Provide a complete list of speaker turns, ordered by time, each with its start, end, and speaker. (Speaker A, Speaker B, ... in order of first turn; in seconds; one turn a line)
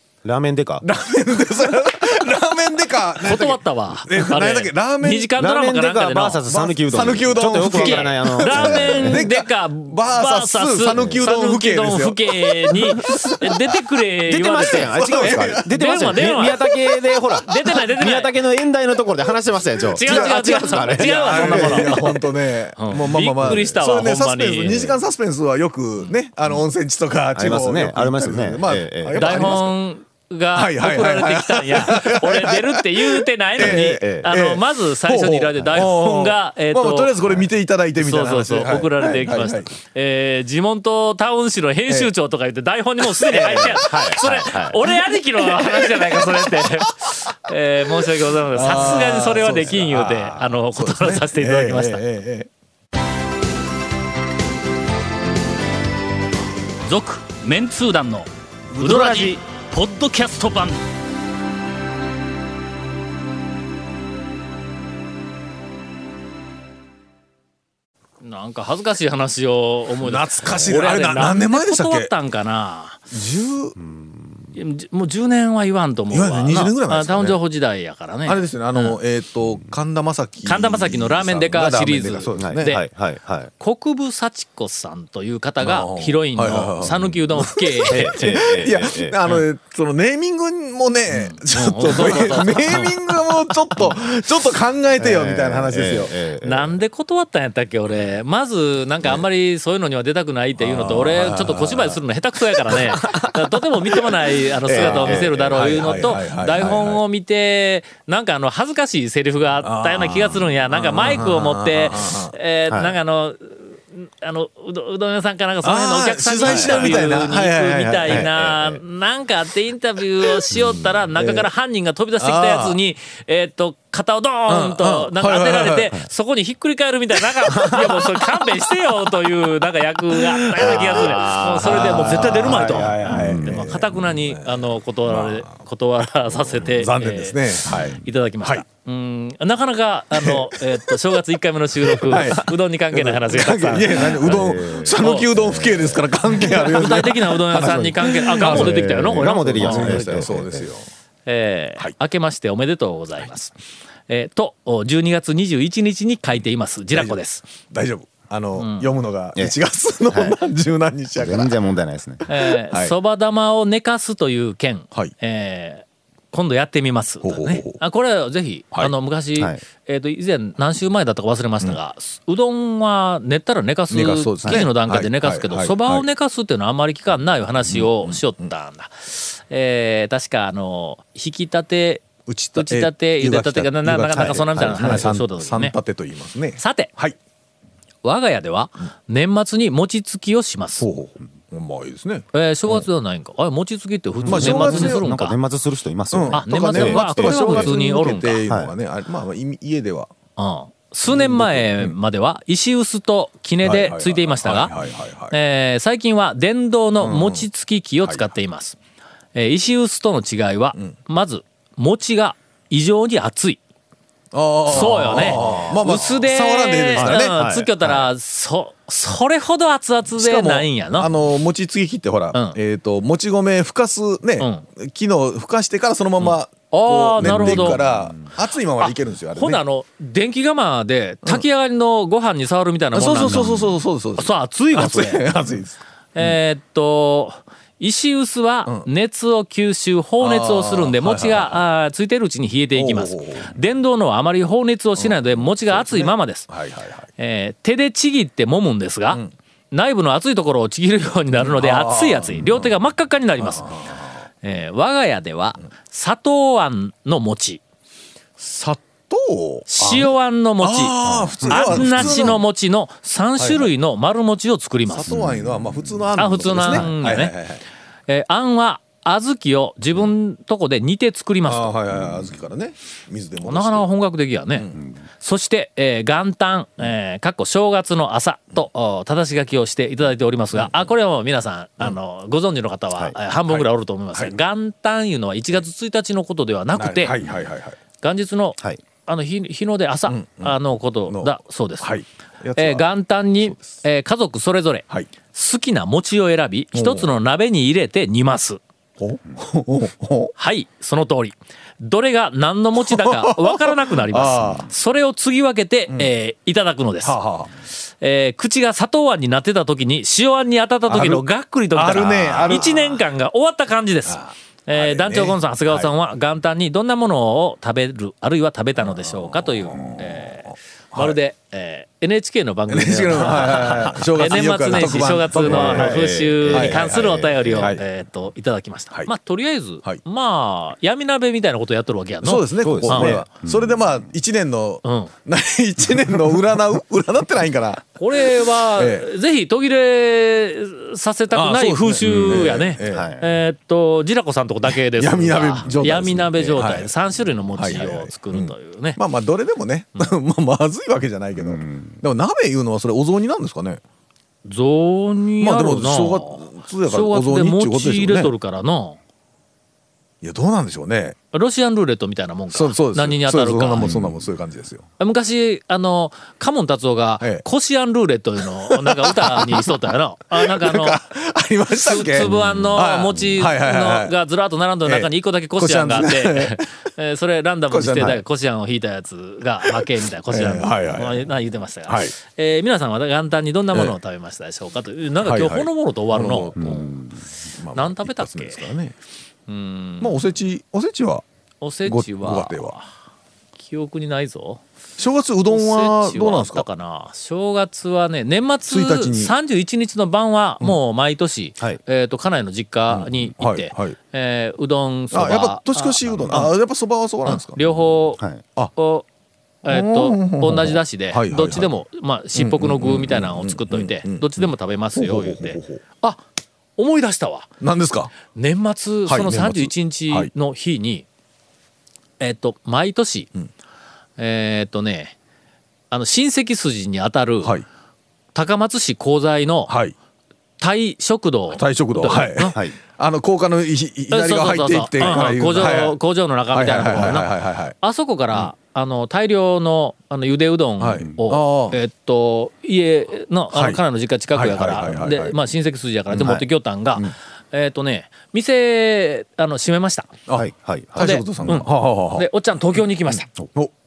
Speaker A: 0.2-0.9
Speaker B: 0.8-5.3
Speaker C: 3.2-6.4
Speaker A: 5.4-9.3
Speaker B: 6.5-13.6
Speaker C: 7.5-16.8
Speaker A: 10.9-11.2
Speaker A: 14.3-22.1
Speaker B: 14.6-16.6
Speaker C: 17.4-18.4
Speaker C: 19.9-22.2
Speaker B: 19.9-29.7
Speaker C: 22.8-25.0
Speaker A: 23.4-23.7
Speaker A: 27.3-29.6
Speaker C: 29.1-37.1
Speaker B: 30.5-39.7
Speaker A: 33.6-34.2
Speaker C: 38.0-52.0
Speaker B: 43.0-44.1
Speaker A: 43.6-44.8
Speaker B: 45.4-47.1
Speaker B: 48.5-52.5
Speaker C: 56.9-58.3
Speaker B: 58.7-59.3
Speaker C: 58.8-60.8
Speaker C: 68.2-73.0
Speaker B: 70.0-72.1
Speaker B: 73.1-73.7
Speaker A: 73.8-74.5
Speaker C: 74.5-79.0
Speaker B: 76.1-77.4
Speaker B: 78.2-82.8
Speaker C: 80.4-82.8
Speaker A: 82.2-83.5
Speaker C: 83.6-88.5
Speaker B: 85.6-96.1
Speaker A: 86.8-87.2
Speaker A: 87.9-89.2
Speaker C: 91.1-93.2
Speaker A: 95.0-96.8
Speaker C: 96.4-144.3
Speaker B: 100.6-102.0
Speaker A: 102.9-103.3
Speaker A: 104.6-106.2
Speaker B: 104.7-107.0
Speaker B: 109.6-112.3
Speaker A: 112.7-113.0
Speaker B: 115.6-118.3
Speaker A: 116.4-117.1
Speaker A: 118.1-118.8
Speaker A: 120.5-121.0
Speaker B: 121.2-121.5
Speaker B: 122.2-122.8
Speaker B: 124.5-125.9
Speaker B: 130.1-135.6
Speaker A: 130.6-133.7
Speaker B: 136.4-138.6
Speaker A: 137.7-138.0
Speaker B: 140.1-141.0
Speaker B: 142.0-150.9
Speaker A: 142.1-142.4
Speaker A: 143.3-146.1
Speaker C: 144.9-145.3
Speaker C: 146.3-150.3
Speaker A: 148.4-150.6
Speaker C: 151.2-153.5
Speaker C: 154.1-157.5
Speaker B: 156.9-161.6
Speaker C: 158.6-158.9
Speaker A: 160.1-160.4
Speaker A: 161.2-162.2
Speaker C: 162.3-185.7
Speaker B: 162.4-162.9
Speaker B: 167.2-167.8
Speaker B: 173.9-176.0
Speaker B: 182.2-187.2
Speaker A: 184.1-185.0
Speaker C: 186.6-186.9
Speaker C: 188.0-190.9
Speaker B: 190.8-192.9
Speaker C: 192.3-195.4
Speaker A: 194.2-197.7
Speaker B: 194.3-195.1
Speaker B: 196.1-200.1
Speaker C: 196.3-198.4
Speaker C: 200.4-204.7
Speaker B: 201.1-201.9
Speaker B: 203.6-205.4
Speaker C: 205.3-208.8
Speaker B: 207.0-207.5
Speaker C: 209.3-213.6
Speaker B: 214.3-217.3
Speaker C: 214.7-221.1
Speaker A: 215.1-215.7
Speaker A: 217.0-217.9
Speaker B: 220.2-229.6
Speaker C: 224.4-224.7
Speaker C: 226.2-227.8
Speaker A: 227.2-228.3
Speaker C: 228.8-235.3
Speaker B: 232.9-236.3
Speaker C: 236.1-246.5
Speaker B: 240.2-241.6
Speaker B: 242.7-243.5
Speaker B: 245.0-247.1
Speaker C: 247.2-253.7
Speaker B: 251.3-252.5
Speaker B: 253.4-254.2
Speaker C: 254.4-257.6
Speaker B: 258.4-262.4
Speaker C: 259.7-265.1
Speaker A: 261.0-262.3
Speaker B: 263.4-263.7
Speaker B: 264.9-267.6
Speaker A: 265.1-265.9
Speaker C: 266.2-267.3
Speaker A: 266.6-266.9
Speaker C: 268.1-271.8
Speaker B: 271.4-273.9
Speaker C: 273.4-287.1
Speaker B: 274.6-274.8
Speaker B: 283.5-284.4
Speaker B: 286.7-287.8
Speaker C: 288.0-291.9
Speaker B: 290.1-292.9
Speaker C: 292.6-298.6
Speaker B: 296.7-297.1
Speaker B: 299.0-300.3
Speaker C: 300.4-307.2
Speaker B: 302.8-304.7
Speaker B: 307.0-307.5
Speaker C: 308.0-333.2
Speaker B: 310.9-313.0
Speaker B: 314.1-315.9
Speaker B: 318.8-321.2
Speaker B: 322.7-327.8
Speaker A: 325.4-327.8
Speaker B: 332.2-338.0
Speaker A: 332.6-333.9
Speaker C: 334.8-335.1
Speaker C: 338.0-349.0
Speaker B: 338.8-339.1
Speaker B: 341.3-343.1
Speaker A: 342.0-343.3
Speaker B: 345.0-346.9
Speaker A: 345.8-346.6
Speaker A: 347.5-347.8
Speaker B: 347.6-353.8
Speaker A: 351.4-352.0
Speaker C: 354.4-359.0
Speaker B: 355.4-358.3
Speaker B: 360.2-361.2
Speaker C: 361.3-363.9
Speaker B: 362.5-364.8
Speaker A: 363.8-364.1
Speaker C: 365.0-371.0
Speaker B: 368.4-369.8
Speaker B: 370.3-374.1
Speaker C: 371.7-386.9
Speaker A: 372.2-373.3
Speaker B: 374.9-376.6
Speaker B: 377.7-378.2
Speaker B: 379.6-381.2
Speaker B: 381.9-382.1
Speaker B: 385.2-386.9
Speaker A: 386.6-387.2
Speaker B: 387.6-388.9
Speaker C: 387.7-388.7
Speaker C: 389.5-390.2
Speaker B: 390.0-391.2
Speaker C: 391.6-392.9
Speaker B: 391.9-392.8
Speaker C: 393.6-394.6
Speaker B: 395.0-396.6
Speaker C: 395.5-406.5
Speaker B: 398.7-399.3
Speaker B: 402.9-403.9
Speaker B: 405.1-407.6
Speaker A: 406.1-406.4
Speaker C: 407.2-408.2
Speaker C: 408.8-409.0
Speaker C: 409.6-416.2
Speaker B: 409.6-414.2
Speaker B: 414.9-415.8
Speaker C: 416.8-417.5
Speaker B: 417.6-418.1
Speaker C: 418.3-421.1
Speaker B: 419.1-420.3
Speaker C: 422.2-423.3
Speaker C: 424.2-425.1
Speaker C: 425.9-427.6
Speaker C: 428.3-429.7
Speaker B: 429.7-429.9
Speaker C: 430.6-432.6
Speaker B: 431.5-436.0
Speaker C: 434.1-450.1
Speaker B: 436.5-437.7
Speaker B: 440.8-441.8
Speaker B: 443.5-443.8
Speaker B: 444.3-445.3
Speaker A: 446.1-446.4
Speaker B: 450.3-453.7
Speaker A: 450.4-451.2
Speaker C: 451.0-453.3